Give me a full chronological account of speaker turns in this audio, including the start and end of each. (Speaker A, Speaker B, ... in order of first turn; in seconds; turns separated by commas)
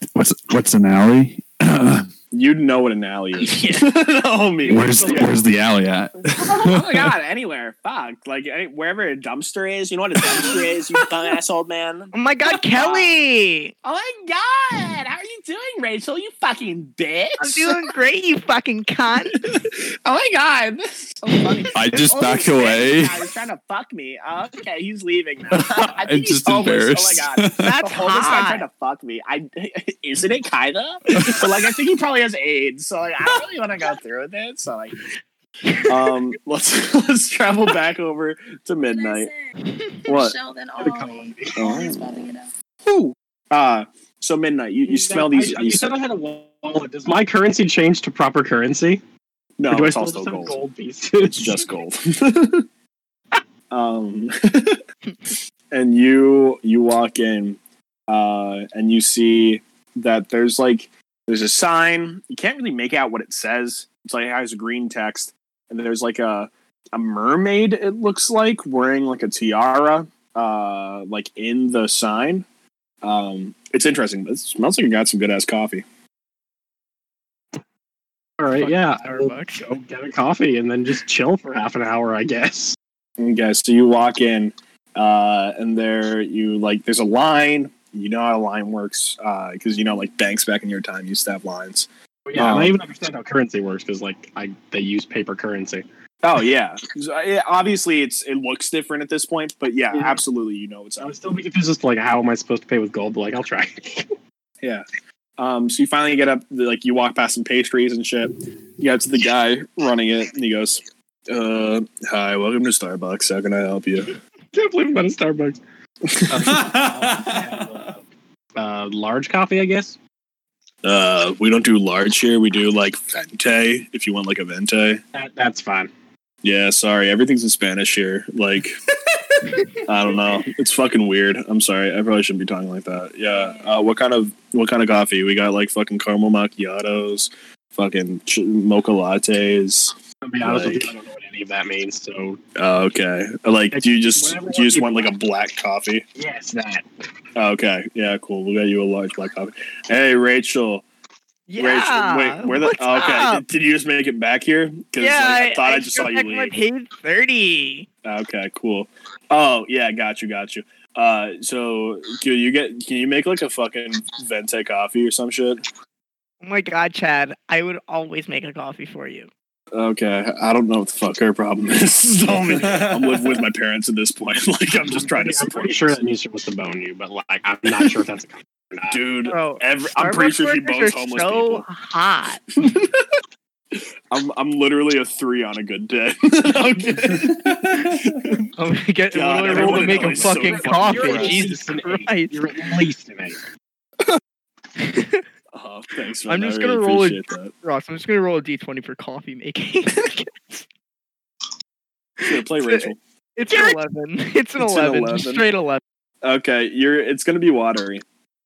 Speaker A: 0.1-2.1, Speaker B: 2.3-5.4, Speaker C: 4.6-5.5, Speaker A: 4.7-7.1, Speaker B: 6.4-13.1, Speaker D: 12.1-13.7, Speaker B: 13.8-17.9, Speaker D: 17.4-19.5, Speaker B: 19.4-35.0, Speaker A: 21.7-23.2, Speaker A: 25.5-27.8, Speaker D: 27.6-28.7, Speaker A: 31.2-31.5, Speaker D: 35.6-36.1, Speaker B: 35.9-39.3, Speaker E: 38.8-39.5, Speaker D: 39.7-40.0, Speaker E: 40.1-42.5, Speaker B: 40.1-40.4, Speaker C: 40.8-41.7, Speaker B: 41.6-42.3, Speaker B: 42.9-45.9, Speaker C: 44.9-49.0, Speaker B: 49.6-50.6, Speaker C: 49.7-51.6, Speaker B: 51.2-52.7, Speaker B: 53.7-54.8, Speaker B: 55.7-72.5, Speaker B: 73.0-75.8, Speaker C: 78.4-82.8, Speaker D: 78.6-79.6, Speaker B: 83.2-92.8, Speaker C: 92.3-95.8, Speaker B: 96.2-101.1, Speaker C: 99.9-100.2, Speaker C: 101.0-104.2, Speaker B: 105.4-114.1, Speaker C: 114.5-115.6, Speaker B: 116.1-116.3, Speaker C: 116.3-118.0, Speaker A: 116.3-117.9, Speaker C: 118.6-120.0, Speaker B: 120.8-125.0, Speaker C: 125.1-125.9, Speaker B: 126.4-128.8, Speaker B: 129.7-140.9, Speaker C: 140.2-142.4, Speaker B: 142.6-146.0, Speaker C: 143.7-145.2, Speaker C: 146.2-146.8, Speaker B: 147.4-150.8, Speaker D: 151.5-153.4, Speaker B: 151.6-156.6, Speaker D: 155.0-157.9, Speaker B: 158.1-165.6, Speaker D: 166.4-169.3, Speaker B: 169.7-176.0, Speaker A: 172.3-173.4, Speaker C: 174.8-179.0, Speaker B: 178.9-181.7, Speaker D: 179.3-182.4, Speaker B: 182.6-183.0, Speaker B: 183.7-187.5, Speaker A: 187.2-188.3, Speaker D: 188.6-192.7, Speaker B: 189.1-191.5, Speaker C: 189.4-193.4, Speaker D: 194.8-195.2, Speaker B: 195.5-197.5, Speaker D: 196.3-200.6, Speaker D: 202.2-205.8, Speaker B: 202.2-203.0, Speaker B: 204.6-205.5, Speaker B: 206.2-208.0